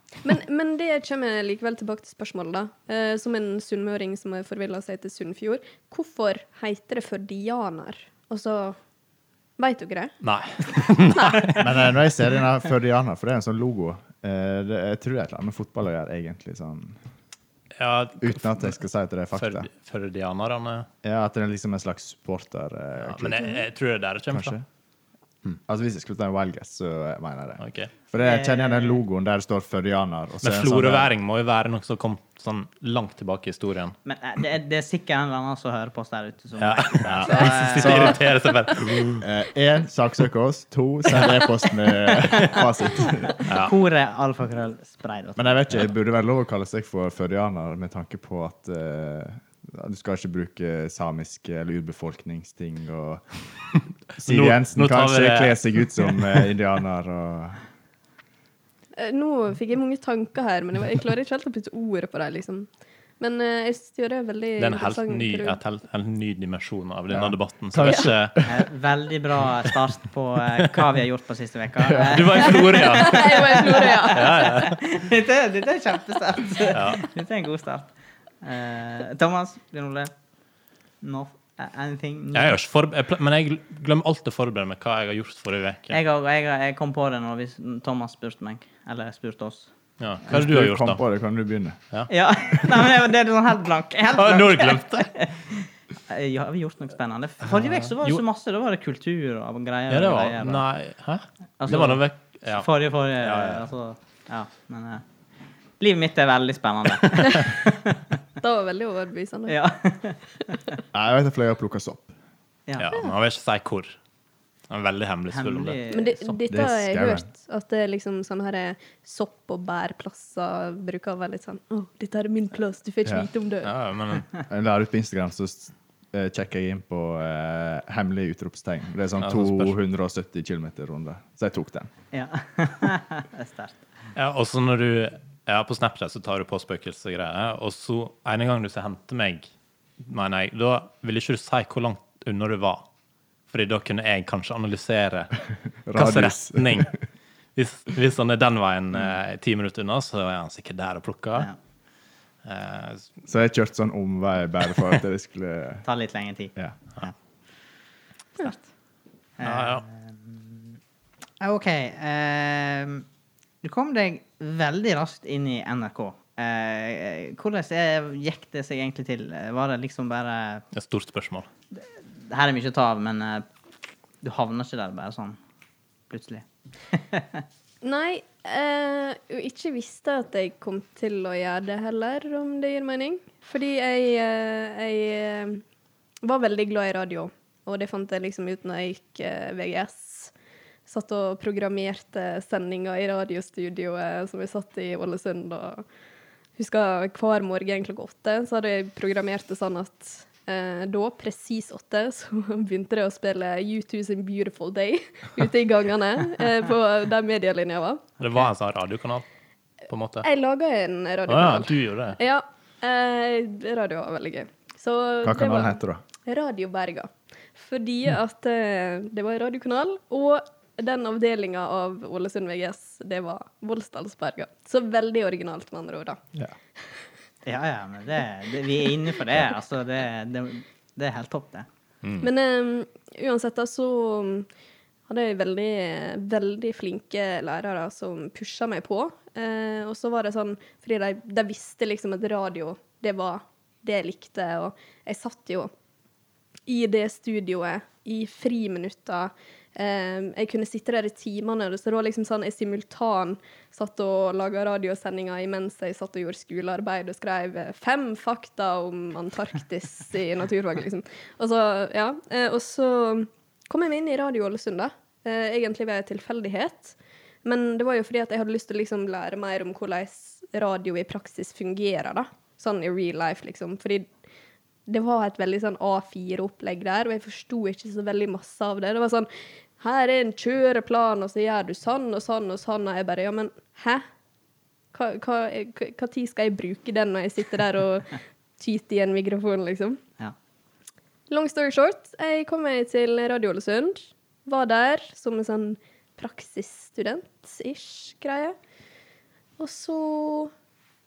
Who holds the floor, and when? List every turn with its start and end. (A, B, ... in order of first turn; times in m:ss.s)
0:00.2-0:08.8 A
0:09.6-0:10.1 A
0:10.2-0:11.7 B
0:11.5-0:17.0 C
0:17.8-0:18.8 B
0:18.2-0:19.7 C
0:19.4-0:20.9 B
0:21.0-0:23.6 C
0:23.0-0:24.5 B
0:24.3-0:24.6 C
0:25.7-0:31.1 C
0:27.6-0:27.9 B
0:28.2-0:29.0 D
0:30.4-0:34.0 B
0:34.1-0:38.2 D
0:36.6-0:39.2 B
0:37.0-0:38.2 C
0:39.2-0:43.4 C
0:42.2-0:42.6 D
0:43.5-0:45.9 D
0:43.5-0:43.7 B
0:45.4-0:53.3 C
0:54.2-0:57.6 C
0:54.3-0:56.4 B
0:59.0-1:02.7 A
1:03.2-1:05.6 A
1:04.6-1:08.4 B
1:07.1-1:08.5 C
1:08.4-1:17.9 D
1:11.9-1:12.2 C
1:12.0-1:14.8 B
1:12.4-1:14.5 A
1:16.7-1:17.1 B
1:18.4-1:20.1 D
1:21.0-1:22.6 D
1:22.3-1:26.0 B
1:25.9-1:29.7 D
1:30.0-1:31.0 B
1:30.3-1:31.8 C
1:32.1-1:40.6 D
1:34.1-1:35.1 B
1:37.5-1:38.2 B
1:39.9-1:42.7 B
1:41.6-1:45.0 D
1:43.2-1:43.7 B
1:45.8-1:48.0 D
1:48.4-1:49.6 A
1:49.5-1:50.8 D
1:50.9-1:52.1 C
1:52.8-1:54.0 B
1:54.7-1:55.8 B
1:55.3-1:56.3 D
1:55.9-2:03.7 A
1:56.5-1:57.3 C
2:03.6-2:04.4 B
2:04.5-2:11.9 C
2:09.2-2:09.8 B
2:12.1-2:13.8 D
2:14.2-2:22.8 B
2:23.5-2:25.3 B
2:25.8-2:26.9 C
2:25.9-2:26.9 B
2:27.6-2:31.5 B
2:32.4-2:33.1 B
2:33.3-2:35.8 C
2:35.8-2:37.1 D
2:38.4-2:38.7 D
2:39.4-2:40.7 D
2:39.4-2:39.8 B
2:41.4-2:43.0 D
2:43.6-2:50.6 D
2:50.7-2:51.5 B
2:52.3-2:53.4 D
2:54.2-2:55.4 D
2:56.1-2:57.4 D
2:57.8-3:05.6 A
3:06.2-3:10.3 A
3:10.9-3:15.8 A
3:16.6-3:28.0 A
3:28.2-3:29.2 B
3:29.9-3:30.3 B
3:30.2-3:46.2 A
3:31.3-3:32.2 B
3:35.2-3:36.0 C
3:47.4-3:51.7 D
3:52.0-3:52.3 B
3:52.2-3:54.5 A
3:55.1-4:05.7 A
4:06.7-4:34.1 A
4:34.9-4:39.3 A
4:39.8-4:44.0 A
4:44.9-4:50.0 A
4:51.3-4:58.6 A
4:59.6-5:00.5 A